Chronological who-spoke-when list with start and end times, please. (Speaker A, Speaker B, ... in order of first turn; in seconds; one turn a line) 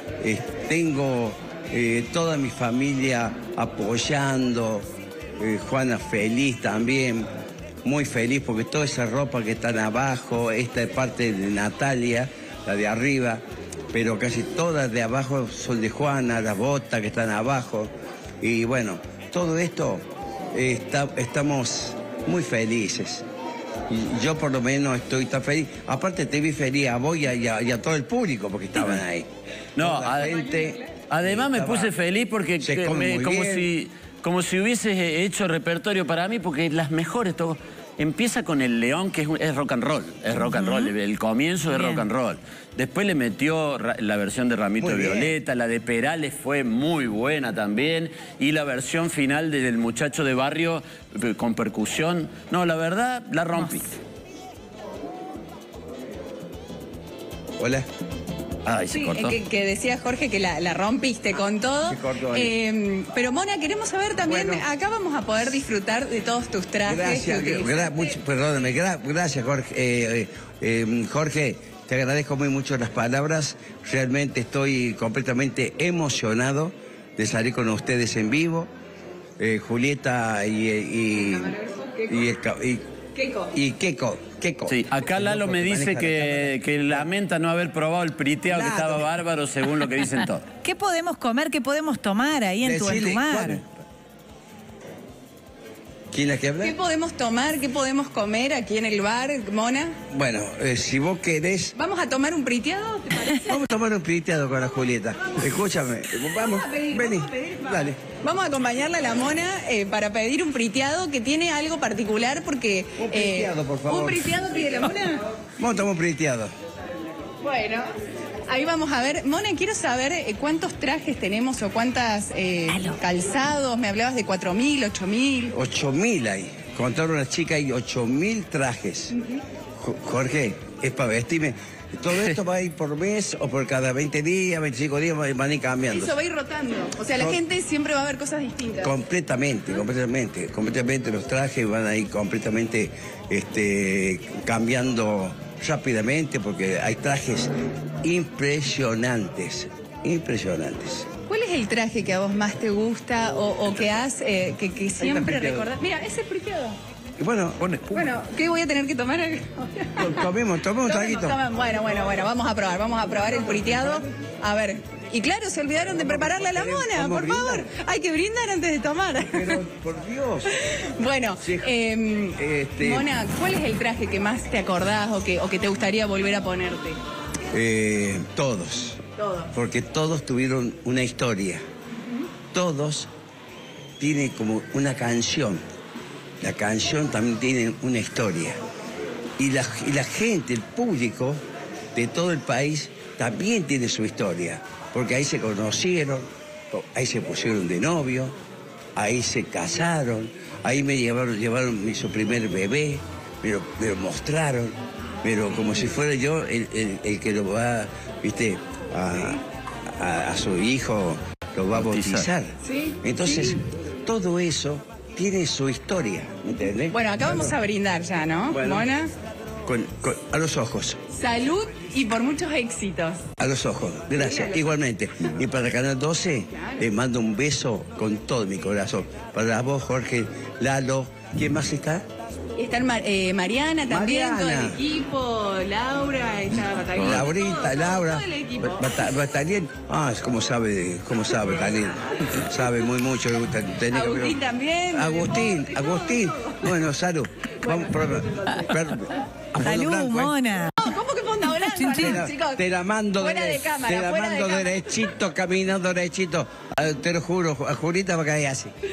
Speaker A: 0.2-7.3
Speaker A: 7.8-23.2
Speaker A: 23.9-29.3
Speaker B: 28.8-29.0
Speaker B: 29.8-30.4
Speaker A: 29.8-31.9
Speaker B: 31.1-54.0
Speaker A: 32.6-33.7
Speaker C: 40.5-40.9
Speaker C: 41.7-42.0
Speaker A: 44.8-45.4
Speaker A: 57.6-57.9
Speaker B: 58.6-59.4
Speaker D: 58.9-68.2
Speaker A: 61.9-62.5
Speaker A: 64.3-64.6
Speaker A: 66.8-78.7
Speaker A: 79.4-82.8
Speaker D: 81.5-82.1
Speaker D: 83.2-83.5
Speaker A: 83.5-87.1
Speaker B: 84.7-90.5
Speaker A: 88.5-89.1
Speaker C: 90.6-93.6
Speaker A: 92.6-93.7
Speaker A: 96.1-96.8
Speaker D: 96.6-100.0
Speaker A: 100.1-101.7
Speaker D: 101.7-103.5
Speaker A: 103.4-108.0
Speaker D: 106.4-115.2
Speaker A: 113.0-114.6
Speaker A: 115.6-116.5
Speaker D: 117.4-117.9
Speaker D: 118.5-125.5
Speaker A: 125.5-129.1
Speaker D: 129.1-129.4
Speaker A: 129.8-136.1
Speaker D: 135.9-138.9
Speaker A: 137.2-137.4
Speaker A: 138.8-147.5
Speaker A: 148.0-151.1
Speaker D: 151.3-156.8
Speaker A: 155.0-155.7
Speaker A: 157.2-157.7
Speaker B: 157.6-158.0
Speaker D: 157.9-160.3
Speaker A: 160.0-161.4
Speaker D: 160.8-169.6
Speaker A: 165.8-167.7
Speaker A: 169.2-170.5
Speaker D: 170.5-177.0
Speaker A: 171.4-171.7
Speaker A: 172.4-173.1
Speaker A: 177.5-179.0
Speaker D: 179.2-179.5
Speaker A: 179.5-181.6
Speaker A: 182.5-183.1
Speaker A: 184.0-185.6
Speaker A: 186.4-188.6
Speaker A: 189.4-191.4
Speaker A: 191.9-198.3
Speaker A: 198.9-217.6
Speaker B: 211.7-212.3
Speaker D: 212.6-213.6
Speaker D: 216.9-219.1
Speaker A: 218.5-218.9
Speaker A: 219.6-221.0
Speaker D: 221.1-223.2
Speaker A: 223.4-232.0
Speaker D: 224.1-224.7
Speaker D: 226.5-226.9
Speaker D: 232.6-239.1
Speaker A: 233.9-234.8
Speaker B: 236.9-237.2
Speaker A: 236.9-244.4
Speaker D: 243.9-246.8
Speaker A: 244.9-250.3
Speaker D: 247.6-248.7
Speaker C: 249.6-250.8
Speaker D: 250.7-252.6
Speaker C: 251.7-252.2
Speaker A: 252.0-258.7
Speaker D: 253.2-255.0